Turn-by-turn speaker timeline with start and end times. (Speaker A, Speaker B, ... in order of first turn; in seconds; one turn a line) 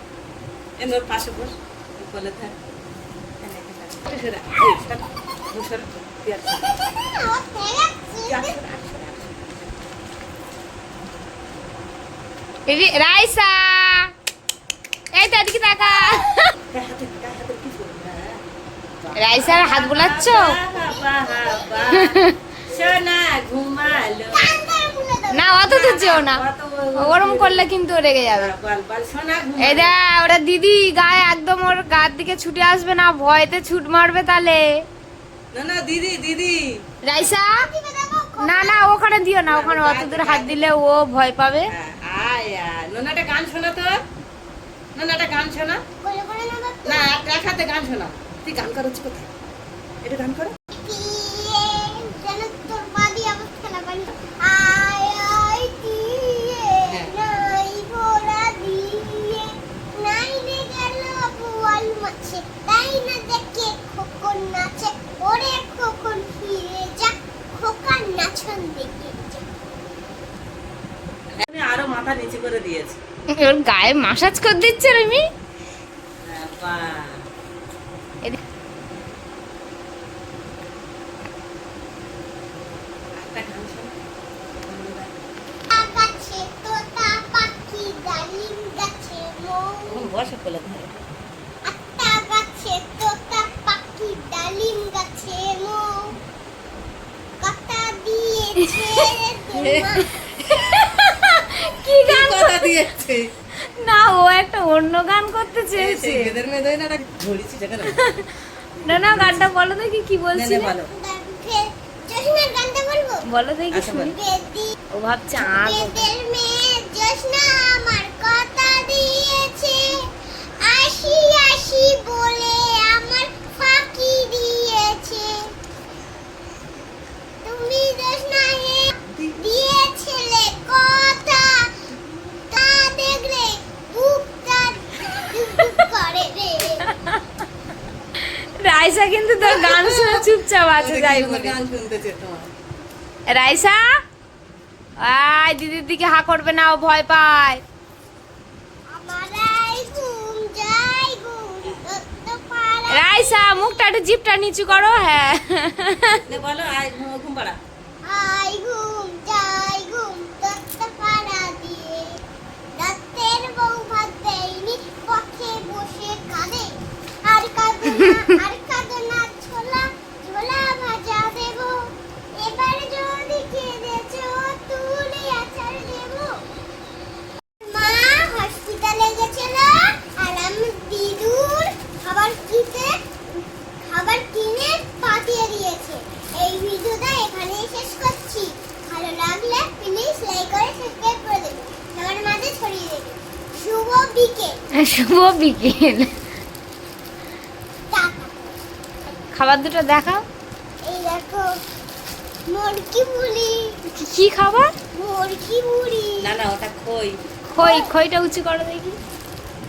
Speaker A: 0.8-2.5
Speaker A: 3.4-6.7
Speaker B: 6.7-8.6
Speaker A: 8.3-9.6
Speaker C: 12.7-14.1
Speaker C: 15.1-16.5
Speaker A: 16.7-18.4
Speaker A: 19.0-22.1
Speaker C: 19.2-20.6
Speaker B: 20.7-22.0
Speaker C: 21.9-22.4
Speaker A: 22.7-24.5
Speaker B: 24.3-25.6
Speaker C: 25.3-26.4
Speaker A: 25.6-27.7
Speaker C: 27.0-28.5
Speaker A: 28.3-29.9
Speaker C: 29.6-34.8
Speaker A: 35.5-36.6
Speaker C: 37.0-37.7
Speaker B: 37.5-38.9
Speaker C: 38.4-41.7
Speaker A: 39.5-40.7
Speaker A: 41.7-44.0
Speaker A: 45.0-45.8
Speaker B: 46.0-47.2
Speaker A: 46.9-49.3
Speaker A: 50.0-50.5
Speaker B: 50.7-69.5
Speaker A: 71.4-73.0
Speaker C: 73.3-75.2
Speaker A: 76.2-77.2
Speaker A: 83.2-84.0
Speaker A: 84.6-85.1
Speaker B: 85.7-90.1
Speaker A: 89.9-91.0
Speaker B: 91.7-96.2
Speaker B: 97.4-100.1
Speaker C: 98.6-99.0
Speaker A: 99.5-100.0
Speaker C: 100.0-102.8
Speaker A: 102.0-103.3
Speaker C: 103.7-106.3
Speaker A: 105.8-108.0
Speaker C: 107.9-108.3
Speaker C: 108.8-110.7
Speaker A: 108.8-109.5
Speaker A: 110.3-110.9
Speaker B: 110.9-113.2
Speaker C: 113.3-114.2
Speaker A: 113.7-114.1
Speaker B: 114.1-114.8
Speaker C: 114.9-116.1
Speaker B: 115.4-125.5
Speaker B: 127.4-131.8
Speaker A: 129.1-129.4
Speaker B: 132.5-136.9
Speaker C: 138.4-141.6
Speaker B: 139.4-140.3
Speaker A: 140.8-142.5
Speaker C: 143.3-143.9
Speaker C: 145.0-147.6
Speaker B: 148.9-153.9
Speaker C: 152.9-156.2
Speaker A: 156.3-157.6
Speaker B: 158.0-162.2
Speaker B: 162.7-176.4
Speaker B: 177.6-183.0
Speaker B: 183.8-194.6
Speaker C: 194.8-196.1
Speaker B: 197.9-198.6
Speaker C: 199.3-200.2
Speaker B: 200.8-201.6
Speaker B: 202.5-203.8
Speaker C: 203.9-204.7
Speaker B: 204.9-206.3
Speaker A: 206.2-207.2
Speaker C: 207.5-209.0
Speaker B: 207.6-207.9